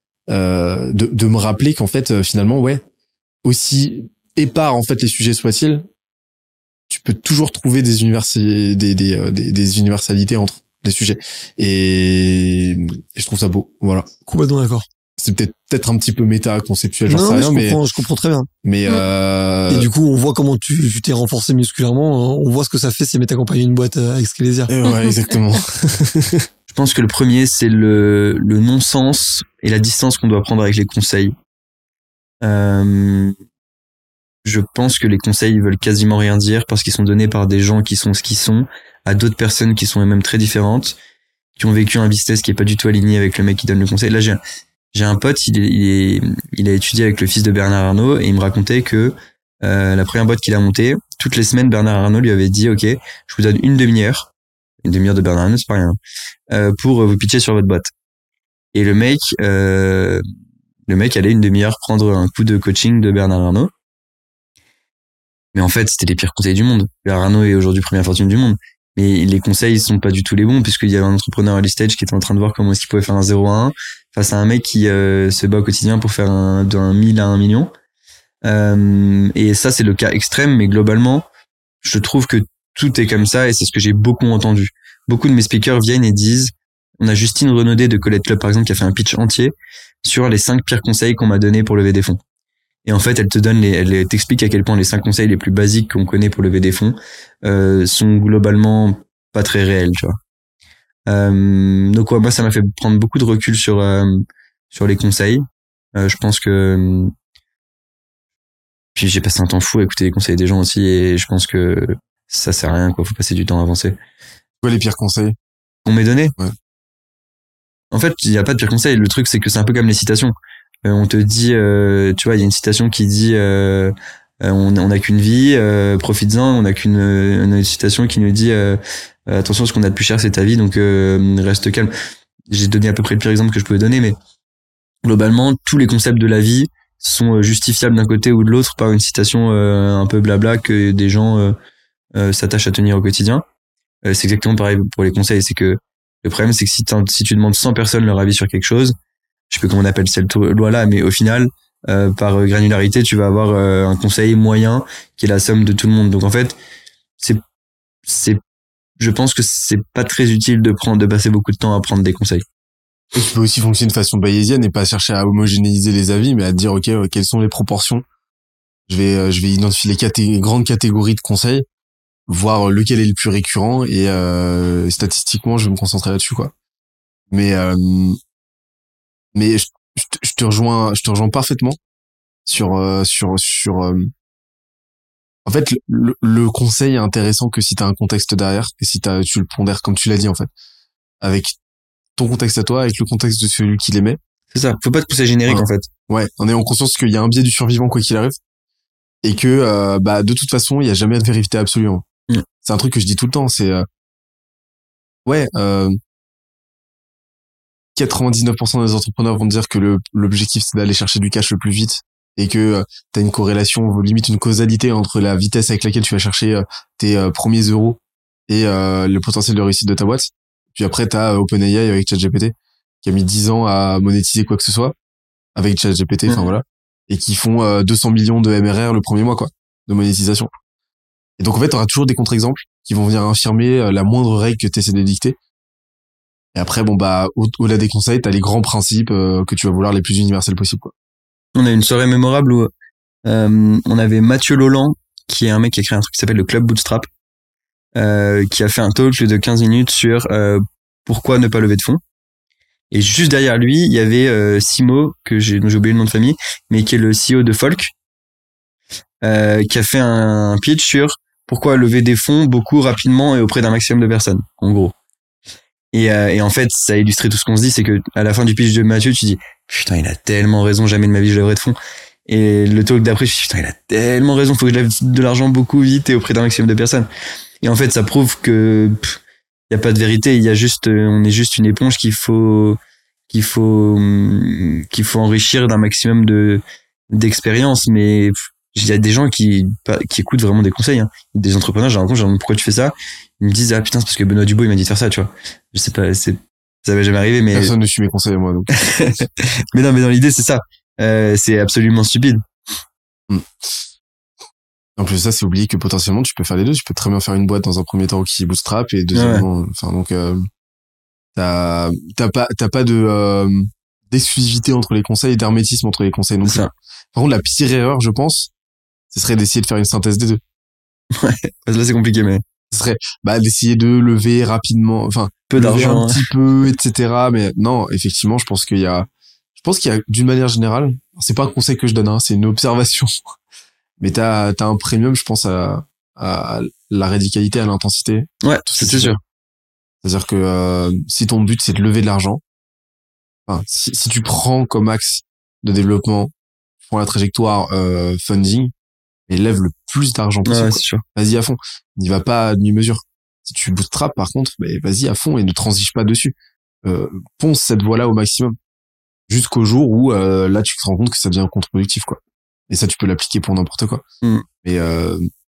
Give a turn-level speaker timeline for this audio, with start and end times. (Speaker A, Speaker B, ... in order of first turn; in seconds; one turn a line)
Speaker A: 0.3-2.8
Speaker A: 3.4-5.9
Speaker A: 6.9-14.1
Speaker B: 14.3-14.8
Speaker A: 15.2-17.8
Speaker B: 17.1-18.5
Speaker A: 18.6-19.9
Speaker B: 19.7-24.7
Speaker A: 24.7-26.4
Speaker C: 26.7-31.3
Speaker C: 32.4-33.3
Speaker C: 34.4-41.0
Speaker C: 41.6-44.4
Speaker C: 44.9-54.3
Speaker C: 54.8-56.0
Speaker C: 56.5-57.9
Speaker C: 58.7-60.2
Speaker C: 60.9-63.7
Speaker C: 65.5-77.7
Speaker C: 78.4-81.2
Speaker C: 81.8-92.2
Speaker C: 92.8-100.2
Speaker C: 101.1-105.4
Speaker C: 105.9-107.1
Speaker C: 109.0-114.0
Speaker A: 114.6-115.3
Speaker C: 115.8-116.3
Speaker C: 117.9-131.9
Speaker C: 132.5-134.2
Speaker C: 135.0-141.6
Speaker C: 142.1-143.4
Speaker C: 144.1-148.9
Speaker C: 149.5-156.6
Speaker C: 158.1-158.4
Speaker C: 159.0-162.4
Speaker A: 163.1-168.0
Speaker A: 168.9-171.7
Speaker A: 172.3-176.5
Speaker A: 177.3-178.2
Speaker A: 179.3-181.8
Speaker A: 182.5-184.1
Speaker A: 185.4-190.5
Speaker A: 191.2-191.5
Speaker A: 192.2-194.2
Speaker C: 194.5-195.9
Speaker A: 195.5-198.4
Speaker A: 199.2-202.0
Speaker A: 202.6-203.8
Speaker A: 205.2-206.0
Speaker A: 207.9-224.9
Speaker A: 225.5-230.5
Speaker A: 231.4-235.4
Speaker A: 236.5-240.9
Speaker C: 241.5-242.7
Speaker C: 243.2-247.1
Speaker C: 247.9-252.0
Speaker C: 252.9-257.9
Speaker C: 259.2-264.9
Speaker C: 265.9-271.8
Speaker C: 272.3-277.1
Speaker C: 277.6-279.2
Speaker C: 279.7-282.8
Speaker C: 283.3-297.7
Speaker A: 297.5-298.7
Speaker C: 298.8-302.4
Speaker A: 305.0-310.4
Speaker C: 309.1-309.4
Speaker A: 311.4-318.5
Speaker C: 316.4-316.7
Speaker A: 319.1-320.4
Speaker C: 321.2-322.4
Speaker A: 322.7-333.1
Speaker C: 325.5-326.3
Speaker A: 334.0-339.2
Speaker C: 338.4-339.2
Speaker A: 340.0-342.4
Speaker A: 343.5-346.3
Speaker A: 346.8-348.7
Speaker A: 349.3-358.6
Speaker C: 350.4-351.0
Speaker A: 359.3-362.2
Speaker A: 362.7-364.0
Speaker A: 364.6-365.2